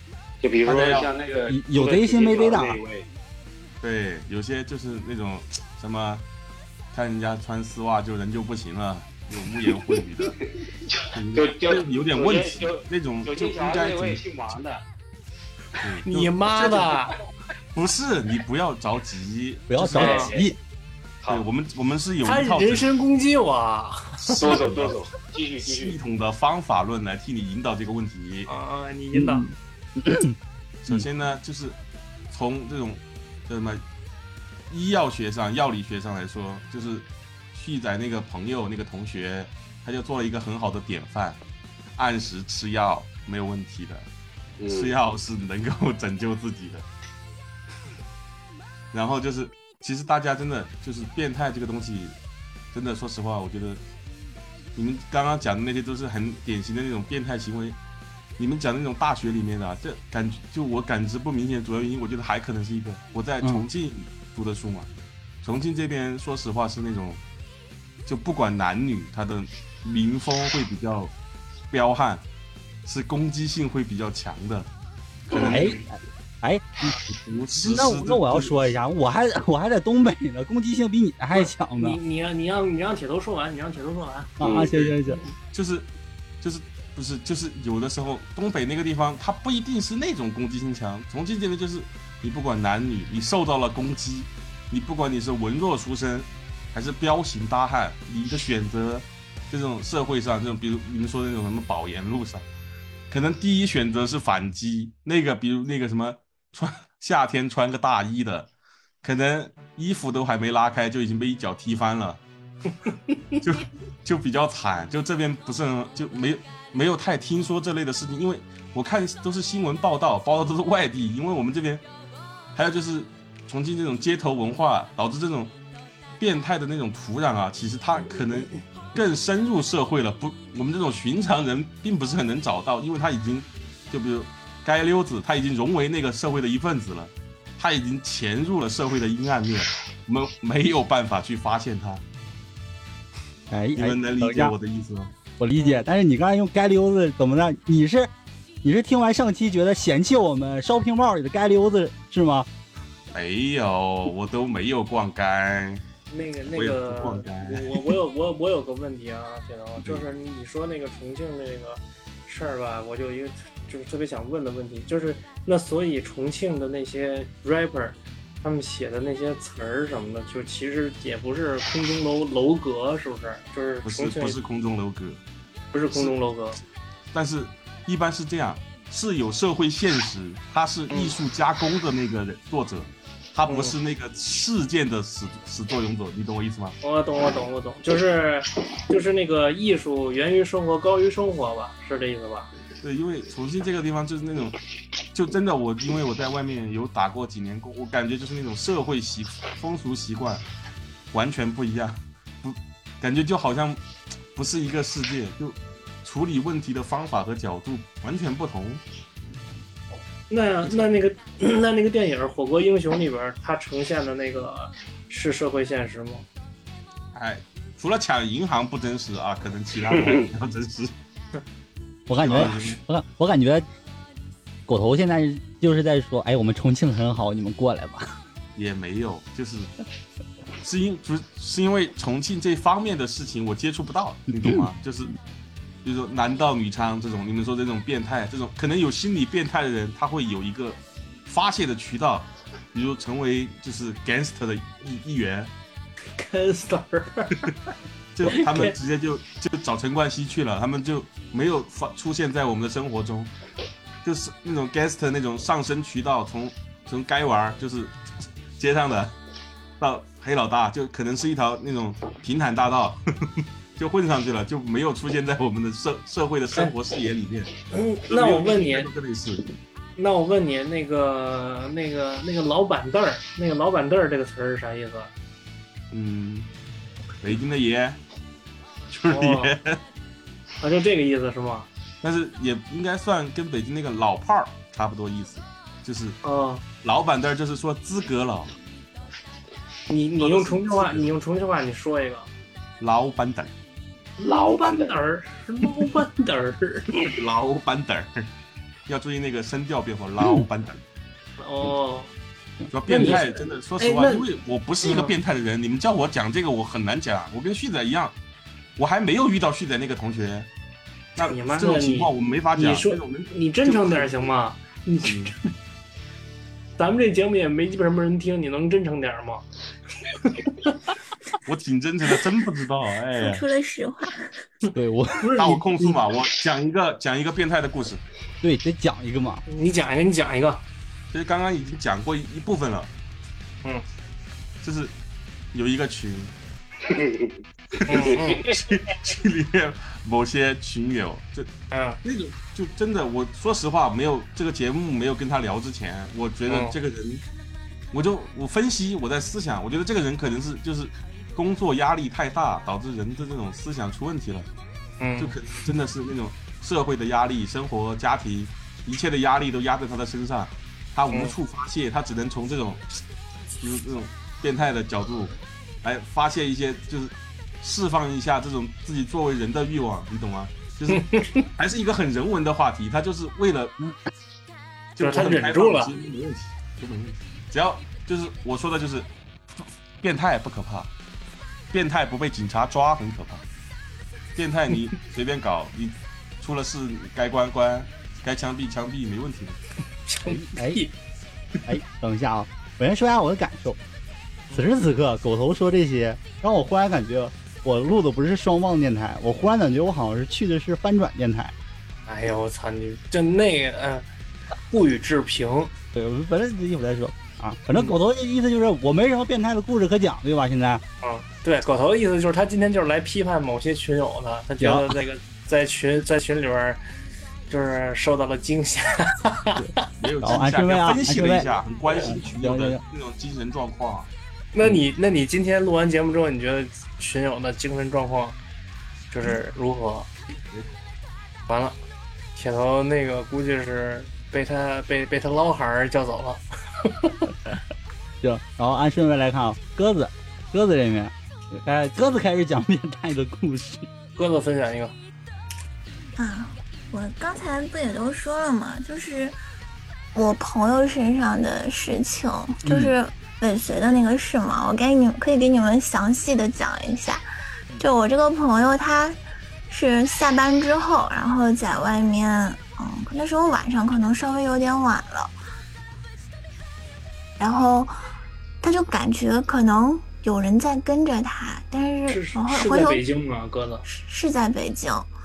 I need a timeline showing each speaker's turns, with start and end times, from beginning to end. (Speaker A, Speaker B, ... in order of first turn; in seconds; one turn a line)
Speaker A: 0.4-3.1
Speaker B: 0.6-1.1
Speaker C: 1.5-2.8
Speaker B: 3.8-6.2
Speaker B: 6.9-10.3
Speaker A: 10.8-14.8
Speaker B: 11.1-14.2
Speaker B: 15.8-16.9
Speaker D: 16.0-17.1
Speaker B: 17.7-20.2
Speaker C: 19.7-20.6
Speaker D: 19.9-20.3
Speaker A: 19.9-20.5
Speaker B: 21.3-22.9
Speaker D: 22.2-24.4
Speaker B: 24.2-25.0
Speaker A: 24.3-25.9
Speaker B: 25.6-28.5
Speaker D: 28.5-29.5
Speaker C: 29.1-30.4
Speaker B: 30.8-31.8
Speaker B: 32.3-33.8
Speaker B: 34.7-41.4
Speaker B: 42.0-44.1
Speaker A: 44.6-44.9
Speaker B: 44.7-46.9
Speaker B: 48.9-52.1
Speaker B: 52.7-53.8
Speaker B: 54.7-57.8
Speaker B: 58.4-64.9
Speaker C: 63.4-63.7
Speaker B: 65.4-67.2
Speaker B: 68.0-71.1
Speaker B: 71.7-72.2
Speaker B: 72.8-74.7
Speaker B: 75.3-75.8
Speaker A: 75.3-75.6
Speaker C: 75.4-77.0
Speaker B: 77.0-78.7
Speaker C: 77.6-82.0
Speaker D: 81.3-84.3
Speaker C: 84.4-85.2
Speaker A: 84.4-84.7
Speaker B: 84.6-85.0
Speaker B: 85.5-85.9
Speaker B: 86.4-102.5
Speaker B: 103.1-108.5
Speaker B: 109.0-112.2
Speaker D: 112.8-113.4
Speaker B: 113.4-121.8
Speaker B: 122.5-125.5
Speaker B: 126.2-142.0
Speaker C: 143.5-144.5
Speaker B: 143.7-145.1
Speaker C: 145.4-148.1
Speaker D: 145.6-145.8
Speaker C: 148.6-152.5
Speaker B: 153.1-155.8
Speaker D: 156.1-174.4
Speaker B: 156.5-157.9
Speaker B: 173.8-175.2
Speaker D: 175.7-176.6
Speaker B: 177.1-186.8
Speaker D: 180.9-181.1
Speaker D: 183.5-183.8
Speaker D: 186.8-192.5
Speaker B: 192.8-194.6
Speaker B: 195.1-200.4
Speaker B: 201.1-203.8
Speaker B: 204.3-208.8
Speaker D: 210.3-216.2
Speaker B: 217.1-220.9
Speaker A: 219.9-220.3
Speaker C: 222.1-223.7
Speaker B: 222.2-222.8
Speaker C: 224.7-228.1
Speaker B: 228.6-229.7
Speaker B: 230.6-235.2
Speaker C: 234.4-234.7
Speaker B: 235.8-245.5
Speaker D: 246.2-247.5
Speaker B: 248.1-253.3
Speaker D: 248.2-248.7
Speaker B: 254.0-258.0
Speaker B: 258.6-259.1
Speaker B: 259.8-263.0
Speaker B: 263.8-267.5
Speaker D: 267.7-268.9
Speaker B: 268.1-269.4
Speaker D: 270.0-275.1
Speaker B: 275.9-276.5
Speaker B: 277.2-278.0
Speaker B: 278.9-279.8
Speaker D: 279.1-279.5
Speaker D: 280.6-281.7
Speaker B: 282.0-286.2
Speaker D: 286.2-286.6
Speaker B: 286.8-288.5
Speaker D: 289.9-292.3
Speaker B: 290.2-291.1
Speaker B: 292.8-293.5
Speaker D: 294.2-296.9
Speaker A: 294.2-294.9
Speaker B: 297.0-298.3
Speaker B: 298.9-300.8
Speaker D: 301.4-302.1
Speaker B: 302.7-308.1
Speaker D: 302.9-304.2
Speaker D: 304.8-305.1
Speaker B: 308.8-310.5
Speaker B: 311.1-314.3
Speaker D: 311.2-315.5
Speaker B: 315.0-315.3
Speaker D: 316.8-319.4
Speaker D: 320.1-320.9
Speaker B: 321.4-323.4
Speaker E: 323.1-324.2
Speaker C: 324.7-325.3
Speaker D: 325.2-325.9
Speaker B: 325.4-328.0
Speaker C: 328.4-329.4
Speaker D: 329.5-330.6
Speaker B: 331.1-332.9
Speaker B: 334.6-334.9
Speaker B: 335.5-336.3
Speaker A: 336.9-337.4
Speaker B: 337.8-341.5
Speaker D: 337.9-338.4
Speaker A: 338.0-338.6
Speaker D: 341.7-342.0
Speaker B: 342.0-347.2
Speaker D: 346.5-346.7
Speaker B: 347.9-354.5
Speaker D: 355.0-355.3
Speaker B: 355.2-362.9
Speaker B: 363.6-373.8
Speaker D: 370.9-371.4
Speaker B: 374.9-380.9
Speaker D: 375.0-375.9
Speaker B: 381.7-383.4
Speaker B: 384.3-389.6
Speaker D: 390.1-390.9
Speaker C: 390.2-390.8
Speaker C: 391.7-393.8
Speaker C: 394.5-401.5
Speaker D: 402.1-404.1
Speaker D: 404.7-405.7
Speaker C: 405.9-410.8
Speaker D: 411.0-416.8
Speaker C: 414.6-414.9
Speaker D: 417.5-419.6
Speaker B: 420.0-424.1
Speaker C: 420.2-422.8
Speaker D: 424.5-428.4
Speaker D: 429.1-430.1
Speaker D: 431.5-431.8
Speaker D: 432.3-437.3
Speaker C: 438.2-443.9
Speaker D: 444.1-444.9
Speaker E: 446.1-449.4
Speaker E: 450.1-457.2
Speaker C: 452.6-452.9
Speaker E: 457.8-465.3
Speaker E: 467.4-467.9
Speaker E: 468.6-473.0
Speaker D: 472.1-473.8
Speaker E: 473.8-475.1